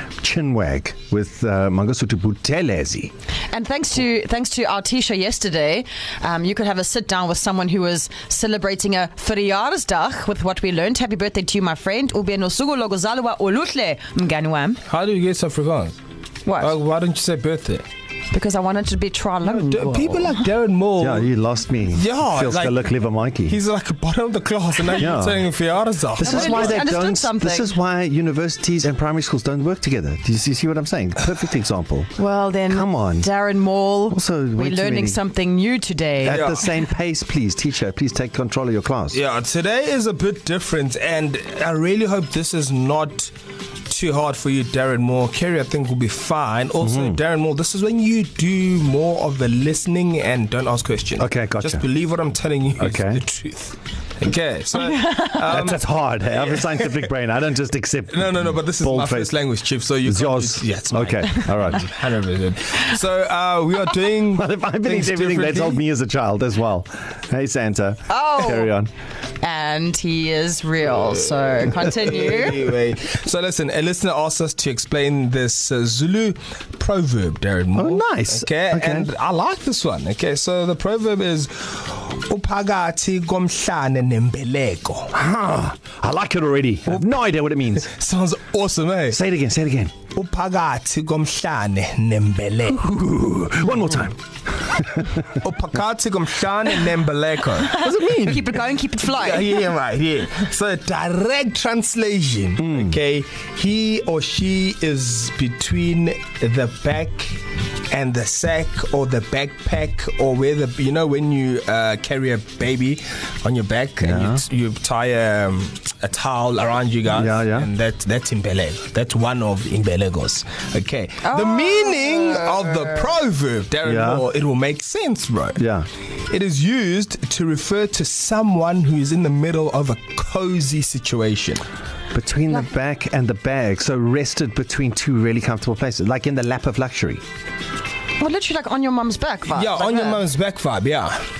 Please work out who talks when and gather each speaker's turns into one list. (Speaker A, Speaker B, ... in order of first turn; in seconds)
Speaker A: 0.2-3.1, 21.0-23.6, 25.0-25.5, 26.1-32.1, 32.7-33.3, 34.1-35.2, 36.2-39.2, 46.8-47.2, 51.2-51.8, 52.8-53.2, 55.5-59.3, 60.0-61.9, 64.3-68.9, 77.7-79.1, 85.1-87.9, 89.1-89.9, 92.7-95.2, 97.8-98.5, 102.6-103.0, 114.0-114.4, 117.1-117.7, 123.8-124.2, 125.6-125.9, 132.1-137.2
Speaker B: 3.5-14.8, 16.4-16.8, 18.3-20.4, 26.2-27.7, 32.2-36.5, 54.8-55.3, 68.1-68.7, 69.4-72.6, 97.6-99.6, 121.2-122.9, 138.2-140.2
Speaker C: 14.8-16.0, 16.6-17.8, 19.4-21.3, 21.9-22.9, 23.4-26.9, 36.3-36.8, 39.1-43.3, 43.9-57.1, 58.1-65.8, 71.5-85.1, 86.9-87.2, 87.8-89.2, 90.1-92.8, 95.2-97.8, 99.0-125.6, 126.3-131.6, 139.5-141.2